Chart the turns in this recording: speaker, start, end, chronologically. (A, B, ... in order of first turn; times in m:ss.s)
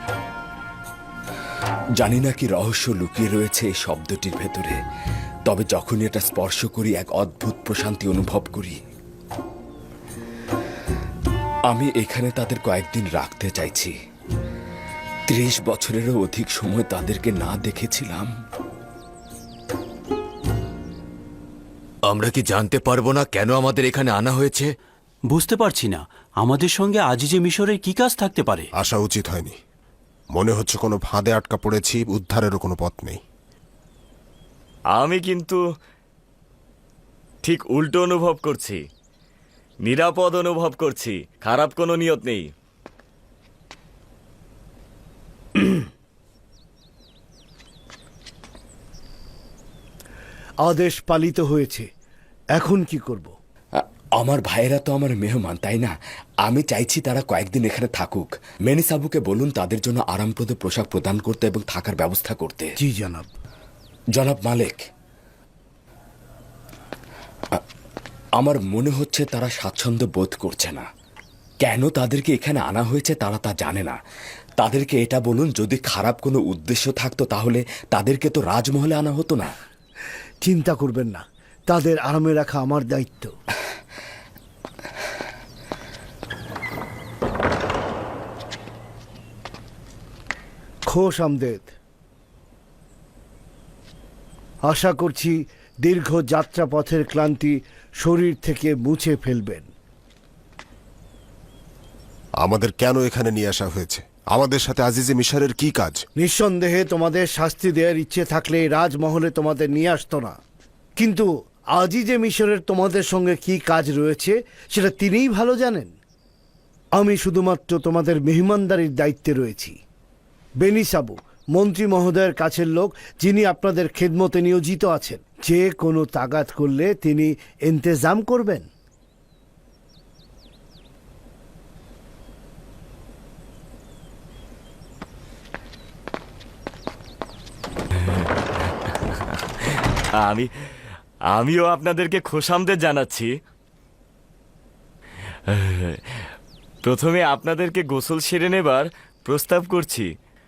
0:02.0-0:04.8 A
0:05.5-0:08.8 A
0:11.7-0:13.9 A
0:15.3-0:18.3 A
0:22.1-0:24.7 B
0:25.3-0:28.7 C
0:28.8-0:29.5 D
0:30.3-0:33.2 D
0:34.9-0:35.6 E
0:37.4-0:38.8 E
0:39.8-0:42.5 E
0:50.6-0:51.9 F
0:52.6-0:53.3 F
0:53.8-0:55.9 A
0:56.4-1:02.7 A
1:02.8-1:03.3 F
1:04.1-1:04.8 A
1:08.4-1:10.8 A
1:11.6-1:14.0 A
1:14.6-1:19.5 A
1:20.4-1:23.3 F
1:30.9-1:31.7 F
1:34.6-1:39.7 F
1:42.4-1:46.0 D
1:46.2-1:50.4 F
1:51.0-1:55.9 F
1:57.0-1:59.8 F
2:00.6-2:08.7 F
2:20.2-2:20.5 E
2:21.3-2:23.3 E
2:25.5-2:26.0 E
2:26.8-2:30.1 E